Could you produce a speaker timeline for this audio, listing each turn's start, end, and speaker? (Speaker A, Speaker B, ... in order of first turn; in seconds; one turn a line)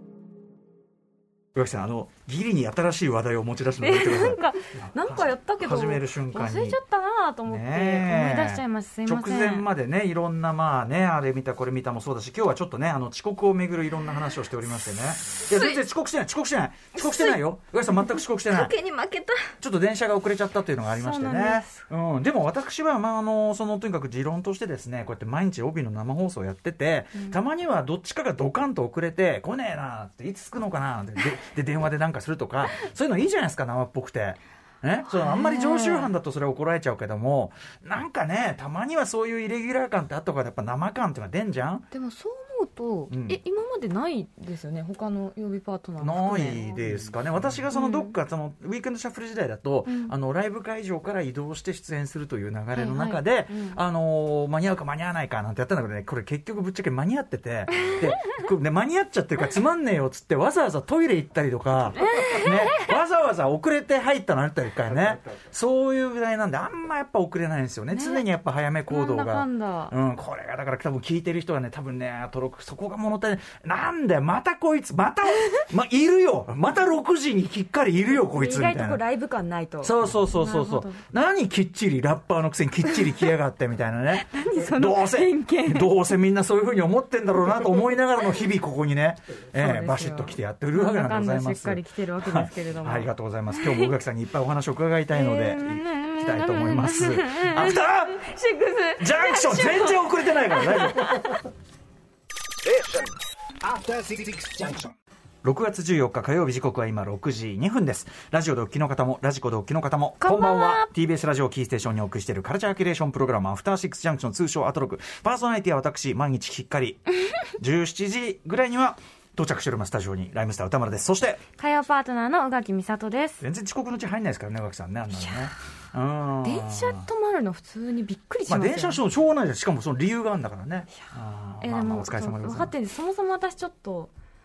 Speaker A: 1.5-6.8
Speaker B: 3.8-9.7
Speaker A: 7.5-18.7
Speaker B: 16.9-17.4
Speaker B: 18.4-19.5
Speaker A: 19.6-41.9
Speaker B: 20.9-21.8
Speaker B: 35.1-36.1
Speaker B: 41.9-46.6
Speaker A: 43.1-43.4
Speaker A: 46.0-79.0
Speaker B: 47.7-48.1
Speaker B: 49.9-50.1
Speaker B: 52.7-53.8
Speaker B: 57.7-58.0
Speaker B: 62.0-63.0
Speaker B: 67.9-68.2
Speaker B: 68.9-69.9
Speaker B: 78.3-81.0
Speaker A: 79.8-98.3
Speaker B: 84.1-86.0
Speaker B: 89.5-93.9
Speaker B: 95.1-101.2
Speaker A: 99.0-101.2
Speaker C: 102.6-105.0
Speaker A: 105.4-117.0
Speaker B: 110.2-110.9
Speaker A: 117.6-121.4
Speaker B: 121.6-123.4
Speaker A: 123.4-127.0
Speaker B: 125.1-125.5
Speaker B: 126.4-129.0
Speaker A: 128.5-132.7
Speaker B: 131.0-134.1